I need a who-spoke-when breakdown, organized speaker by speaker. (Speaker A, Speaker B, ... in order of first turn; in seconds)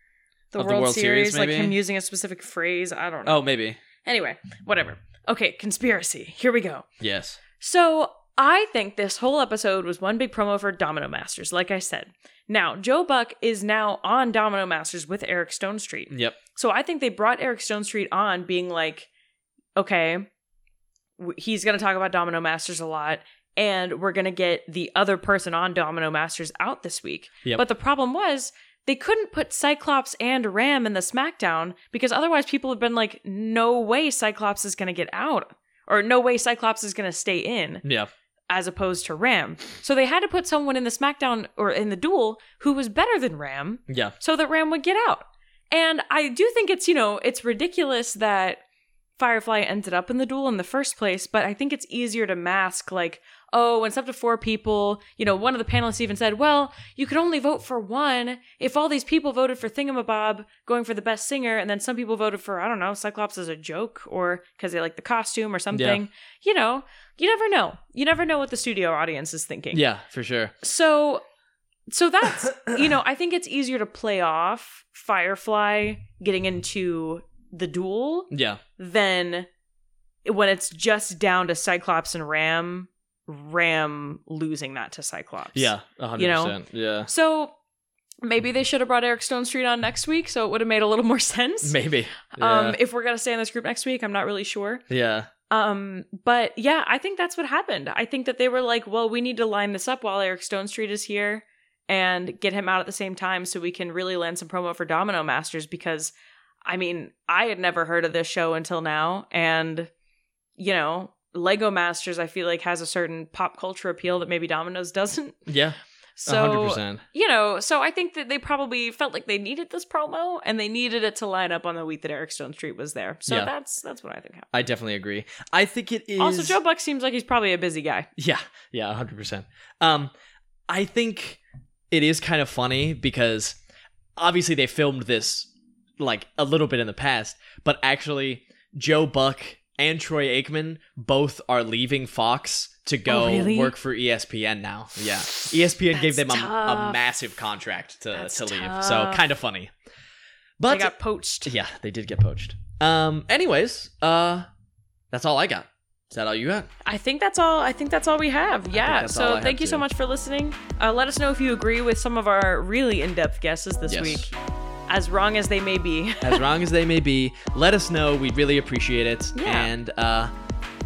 Speaker A: 0.5-3.4, 4.0-6.9, 7.6-19.1, 19.8-20.3, 21.2-37.8, 38.5-48.6, 49.2-69.8, 70.6-71.2, 71.9-79.5, 80.2-87.5, 88.2-91.8, 92.3-94.8, 95.5-106.1, 106.6-109.9, 110.6-115.5, 116.2-124.5, 126.2-128.1, 143.1-143.7, 145.3-147.0, 148.1-149.3, 150.7-151.5, 156.8-164.3, 164.9-166.4, 169.3-169.7
Speaker B: 0.6-1.8, 3.2-3.8, 7.0-7.4, 16.1-16.4, 37.8-38.1, 43.9-44.1, 65.7-66.0, 69.7-70.5, 78.3-78.6, 85.5-87.1, 91.6-92.8, 94.9-95.3, 115.5-117.0, 124.5-126.6, 128.2-130.1, 130.7-131.4, 131.9-133.6, 134.2-149.7, 150.6-150.9, 151.4-154.5, 155.1-156.7, 158.7-159.8, 163.9-164.3, 166.2-170.3